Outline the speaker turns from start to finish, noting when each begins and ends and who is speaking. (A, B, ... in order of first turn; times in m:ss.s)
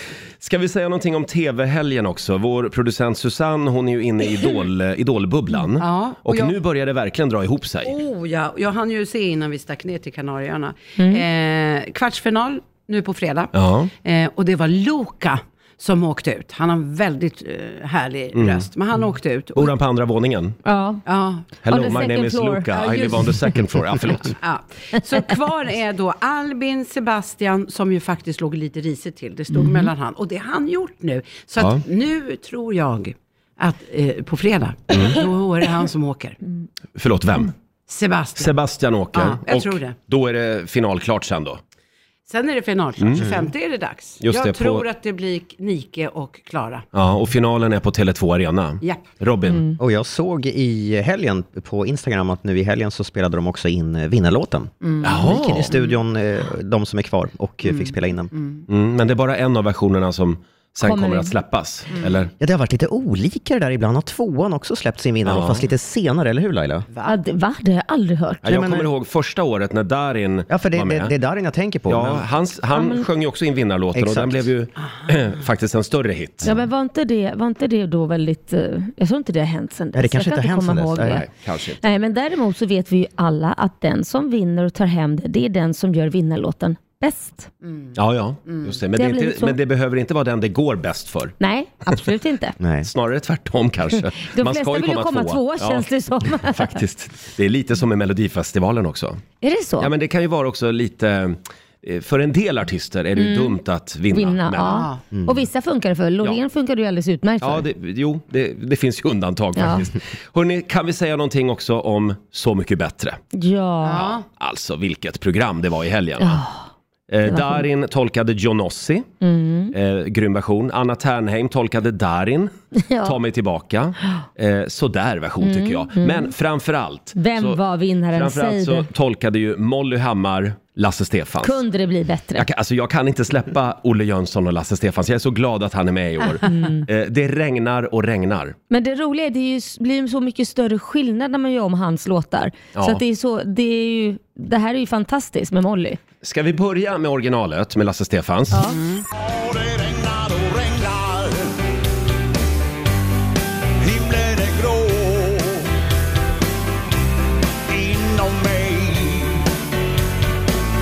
0:00.4-0:07.9 A
0:05.8-0:06.5 B
0:07.8-0:13.5 B
0:11.0-0:11.2 C
0:13.5-0:13.9 A
0:14.0-0:19.7 B
0:18.3-0:18.6 A
0:19.5-0:20.6 A
0:20.6-0:23.3 C
0:21.0-0:21.5 B
0:21.6-0:24.3 A
0:24.4-0:36.4 B
0:29.5-0:29.9 C
0:34.9-0:35.2 A
0:37.0-0:37.5 A
0:37.9-0:38.6 B
0:38.4-0:41.6 A
0:39.1-0:39.9 B
0:42.3-0:46.8 B
0:43.0-0:43.3 A
0:43.2-0:43.4 D
0:44.2-0:44.8 A
0:46.9-0:49.6 A
0:49.5-0:49.8 C
0:49.8-0:58.3 D
0:54.8-0:55.9 B
0:55.0-0:55.7 A
0:57.6-0:58.6 B
0:58.7-1:02.3 A
1:00.8-1:01.3 C
1:02.4-1:06.9 D
1:05.2-1:05.6 A
1:07.0-1:08.4 C
1:08.4-1:11.1 A
1:08.4-1:08.8 D
1:10.5-1:12.2 D
1:11.9-1:16.5 A
1:12.7-1:13.0 C
1:13.9-1:14.5 D
1:16.4-1:21.2 C
1:19.9-1:21.2 D
1:21.0-1:21.8 A
1:21.8-1:27.5 C
1:27.6-1:27.9 B
1:27.9-1:31.4 A
1:28.9-1:29.6 C
1:31.4-1:32.6 C
1:32.6-1:32.9 D
1:32.8-1:39.2 A
1:34.2-1:36.8 C
1:39.4-1:39.9 C
1:39.8-1:44.9 A
1:43.2-1:43.6 C
1:44.1-1:47.6 C
1:44.6-1:45.0 B
1:45.1-1:45.4 D
1:47.4-1:53.2 A
1:49.6-1:49.8 C
1:53.3-1:54.1 C
1:53.8-1:54.2 B
1:54.0-1:56.4 A
1:56.2-1:56.6 C
1:57.1-1:59.1 A
1:57.2-1:57.6 C
1:59.2-1:59.7 C
1:59.7-2:07.6 A
2:02.8-2:03.2 C
2:05.4-2:06.3 C
2:07.2-2:08.9 C
2:08.1-2:11.6 A
2:11.4-2:12.5 C
2:12.4-2:18.5 A
2:16.4-2:16.8 C
2:18.7-2:26.0 C
2:22.8-2:23.0 A
2:26.2-2:28.6 A
2:28.5-2:28.8 C
2:28.8-2:29.0 B
2:29.1-2:31.5 E
2:33.8-2:35.7 E
2:37.7-2:39.5 E